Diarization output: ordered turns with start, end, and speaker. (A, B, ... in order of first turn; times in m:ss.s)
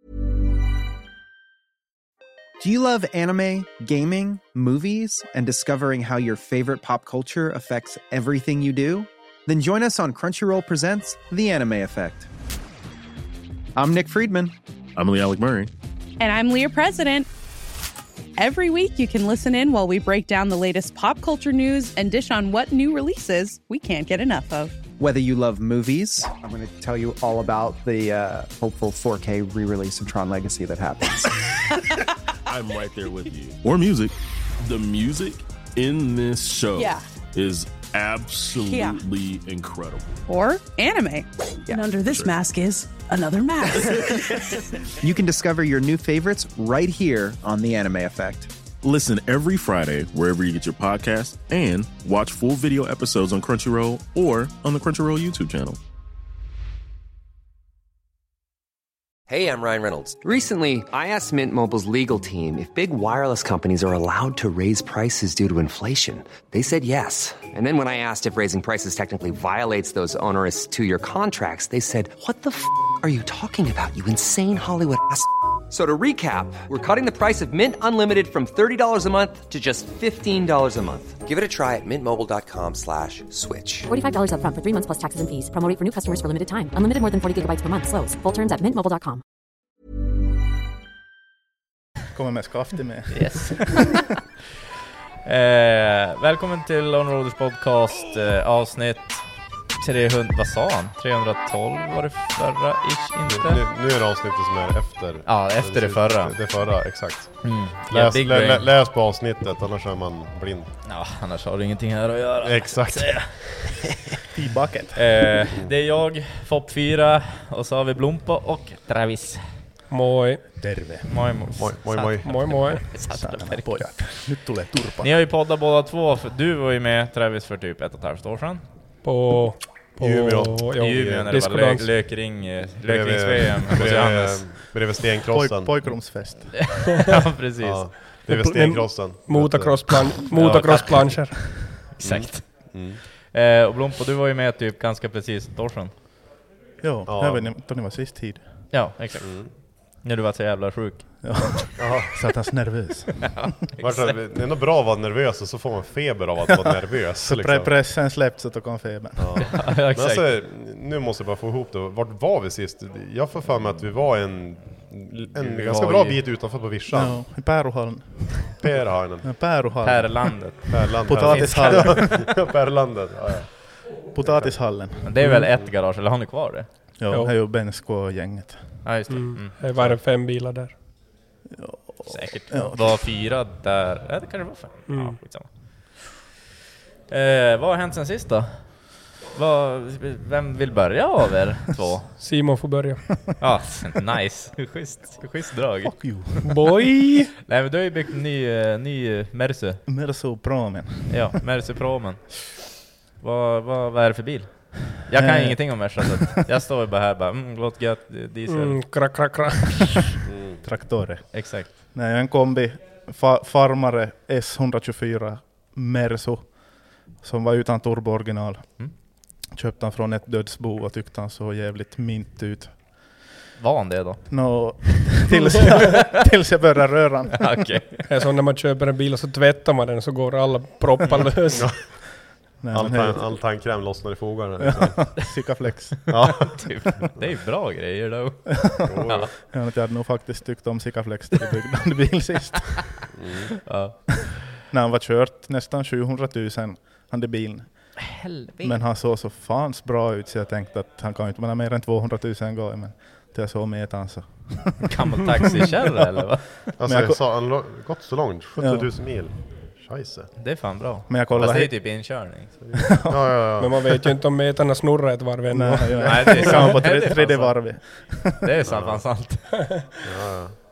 0:02.6-0:12.3 A
0:13.8-0:14.5 A
0:15.0-0:15.7 B
0:16.2-0:17.3 C
0:18.4-0:24.7 C
0:25.0-0:31.3 A
0:32.5-0:40.1 B
0:36.8-0:37.0 C
0:38.7-0:39.0 C
0:40.3-0:41.3 C
0:41.7-0:44.6 D
0:42.0-0:42.4 B
0:45.0-0:48.5 A
0:48.8-0:55.8 B
0:59.3-1:23.9 E
1:23.9-1:29.2 F
1:32.1-1:33.7 G
1:33.1-1:34.0 H
1:35.2-1:43.6 H
1:43.3-1:50.7 I
1:45.2-1:46.4 H
1:47.4-1:48.7 H
1:50.8-1:54.0 H
1:52.4-1:53.4 I
1:54.3-1:55.3 G
1:54.9-1:59.6 H
1:59.9-2:00.4 J
2:00.6-2:01.2 G
2:01.1-2:04.3 H
2:01.6-2:02.4 I
2:02.2-2:02.8 J
2:03.1-2:05.1 G
2:05.0-2:08.6 H
2:09.0-2:11.9 J
2:10.0-2:11.3 I
2:10.8-2:14.7 H
2:12.8-2:15.7 I
2:15.3-2:16.8 G
2:16.5-2:18.0 H
2:17.6-2:21.1 I
2:18.3-2:21.6 J
2:20.3-2:21.4 H
2:22.0-2:23.0 I
2:22.0-2:25.9 H
2:26.8-2:28.8 G
2:27.1-2:27.5 I
2:28.7-2:31.6 H
2:29.2-2:29.5 I
2:31.2-2:33.4 G
2:31.8-2:32.2 I
2:33.3-2:34.2 H
2:33.8-2:37.7 I
2:37.2-2:39.6 G
2:39.2-2:47.2 I
2:39.5-2:40.3 H
2:45.4-2:46.2 H
2:46.9-2:52.3 G
2:48.6-2:49.5 I
2:49.8-2:52.0 H
2:50.7-2:54.8 I
2:54.1-2:55.4 G
2:55.0-2:56.7 H
2:57.0-2:58.8 G
2:58.8-2:59.9 H
2:59.1-3:00.7 J
3:01.5-3:03.0 G
3:02.1-3:06.2 H
3:04.9-3:05.2 J
3:07.1-3:12.2 H
3:12.2-3:13.2 J
3:13.4-3:16.2 H
3:15.8-3:16.6 G
3:16.4-3:17.3 J
3:17.4-3:19.8 H
3:19.9-3:21.3 G
3:21.1-3:22.4 H
3:23.2-3:29.2 H
3:25.1-3:26.4 G
3:28.5-3:30.0 J
3:30.3-3:30.6 I
3:30.6-3:43.2 G
3:31.3-3:31.7 H
3:43.6-3:45.6 H
3:44.3-3:47.8 G
3:47.4-3:48.0 H
3:48.1-3:51.7 J
3:51.5-3:52.2 I
3:52.6-3:53.4 G
3:52.7-3:55.4 I
3:54.6-3:56.5 G
3:55.6-3:59.3 H
3:56.1-3:57.2 I
3:58.6-4:03.1 G
3:58.8-3:59.3 I
4:03.1-4:03.6 I
4:03.6-4:04.4 H
4:04.7-4:15.7 G
4:08.1-4:08.8 H
4:14.9-4:16.7 H
4:16.7-4:17.2 G
4:16.8-4:20.3 I
4:18.6-4:18.9 G
4:20.4-4:22.6 H
4:21.1-4:23.2 G
4:22.6-4:24.0 I
4:23.6-4:26.4 J
4:25.5-4:28.5 G
4:26.0-4:29.8 H
4:28.6-4:30.6 I